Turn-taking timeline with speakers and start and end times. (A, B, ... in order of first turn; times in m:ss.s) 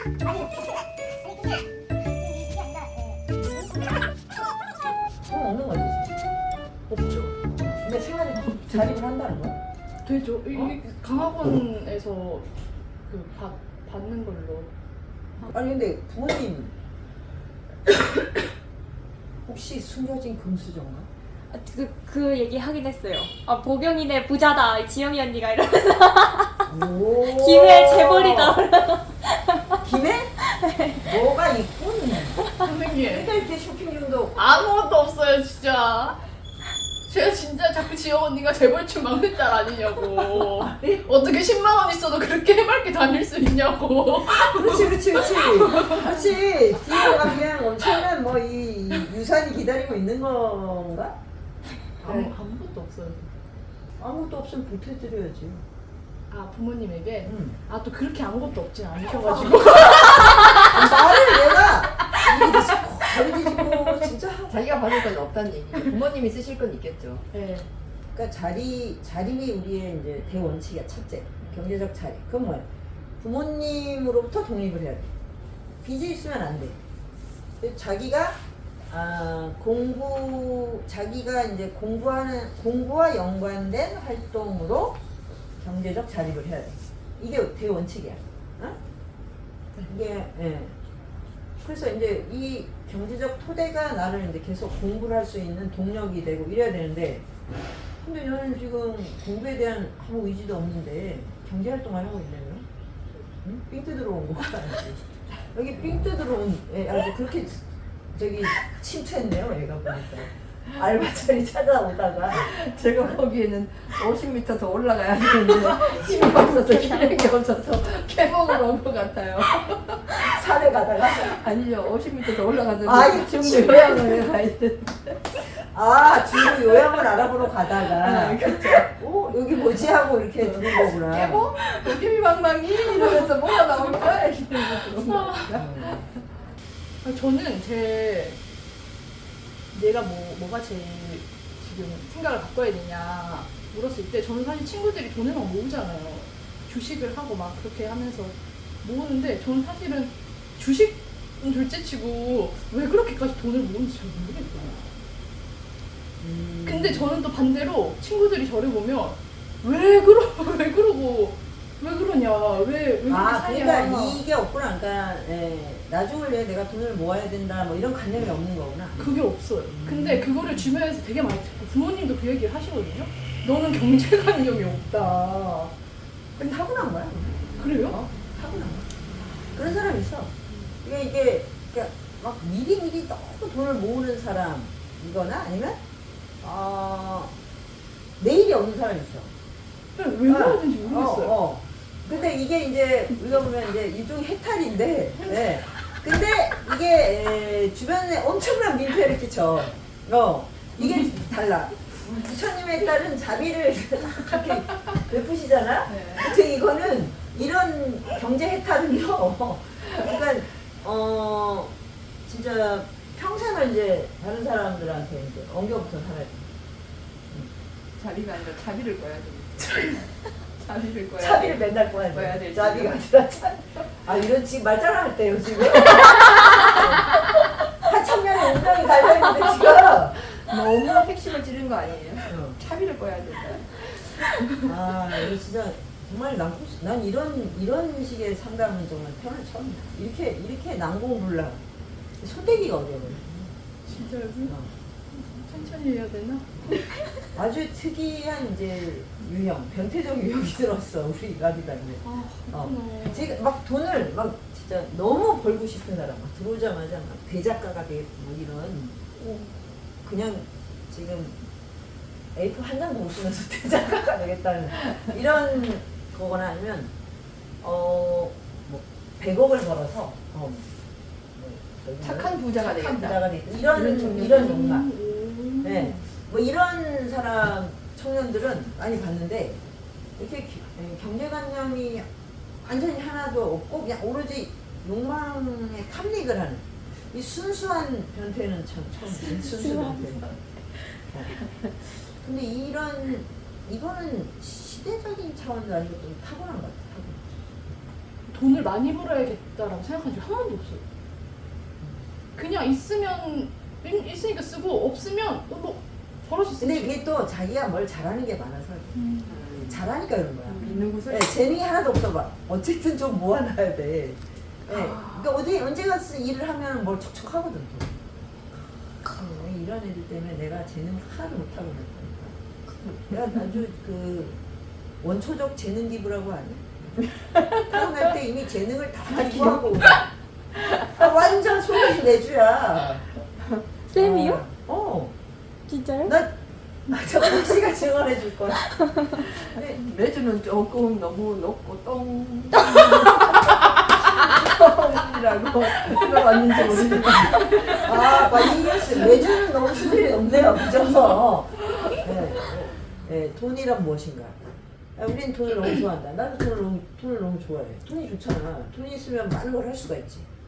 0:00.2-0:04.9 A
0:05.2-0:06.1 B
0:06.9-0:07.3 C
0:07.7-0:09.6 B
0:10.0-0:12.5 C
0:13.1-0:14.7 C
0:15.4-0:16.7 B
0:19.5-0:21.1 B
0:21.5-0:26.7 D
0:26.7-0:28.6 B
0:27.2-0:29.8 D
0:29.8-0:30.3 B
0:30.5-0:31.1 D
0:31.0-0:32.4 B
0:32.6-0:33.3 C
0:33.0-0:34.6 B
0:34.4-0:36.2 C
0:37.1-0:46.3 C
0:40.4-0:41.1 B
0:44.3-0:51.2 B
0:47.0-0:47.3 C
0:52.0-0:53.3 C
0:54.0-0:55.6 B
0:56.3-1:01.0 C
0:57.2-0:57.6 B
0:59.3-1:04.6 B
1:04.5-1:07.2 E
1:07.3-1:07.7 C
1:08.2-1:12.7 B
1:13.2-1:15.1 B
1:15.8-1:16.8 B
1:17.6-1:25.0 B
1:25.6-1:28.8 B
1:29.8-1:30.8 B
1:31.6-1:37.3 B
1:38.0-1:42.7 B
1:43.4-1:52.5 B
1:52.3-2:00.2 E
1:55.7-1:56.0 B
2:00.1-2:01.4 B
2:01.2-2:05.2 E
2:02.8-2:04.2 B
2:05.7-2:11.5 B
2:06.4-2:07.2 E
2:07.8-2:08.9 E
2:10.4-2:16.2 E
2:13.0-2:13.5 C
2:14.6-2:15.5 C
2:15.5-2:16.0 B
2:17.0-2:18.4 C
2:19.7-2:34.8 C
2:36.2-2:37.1 B
2:36.6-2:44.2 C
2:43.1-2:49.2 B
2:49.0-2:55.7 C
2:49.7-2:50.6 B
2:56.4-2:58.9 B
2:57.6-2:58.0 C
2:59.5-3:05.8 B
3:06.4-3:07.3 B
3:08.2-3:09.3 B
3:10.0-3:11.4 C
3:10.3-3:31.8 B
3:25.9-3:26.2 E
3:32.3-3:36.5 B
3:38.0-3:40.1 E
3:40.6-3:43.0 E
3:41.2-3:47.3 B
3:47.8-3:50.2 B
3:50.2-3:54.5 E
3:52.3-3:52.6 B
3:54.6-4:01.6 B
4:02.2-4:03.6 B
4:03.9-4:04.6 C
4:05.1-4:06.9 C
4:07.3-4:19.0 B
4:12.0-4:13.3 C
4:19.2-4:19.6 C
4:20.0-4:21.4 B
4:22.4-4:26.9 B
4:27.6-4:30.7 B
4:31.4-4:34.9 B
4:32.0-4:34.6 E
4:33.7-4:36.1 C
4:35.6-4:39.6 B
4:40.2-4:42.1 B
4:42.6-4:50.3 B
4:49.6-4:50.2 D
4:51.1-4:57.3 B
4:58.3-5:00.8 C
5:02.4-5:07.0 C
5:06.6-5:09.0 B
5:09.0-5:09.4 D
5:09.3-5:09.8 E
5:09.7-5:18.0 B
5:10.5-5:11.4 E
5:19.0-5:22.4 B
5:23.0-5:24.4 B
5:25.0-5:30.0 B
5:29.2-5:30.0 E
5:30.7-5:33.0 B
5:33.9-5:34.4 D
5:33.9-5:35.2 B
5:35.7-5:36.2 D
5:36.0-5:36.4 B
5:36.9-5:39.8 B
5:38.8-5:39.3 D
5:39.3-5:48.5 E
5:42.7-5:43.1 D
5:42.8-5:43.2 B
5:46.4-5:54.4 B
5:55.0-6:00.3 B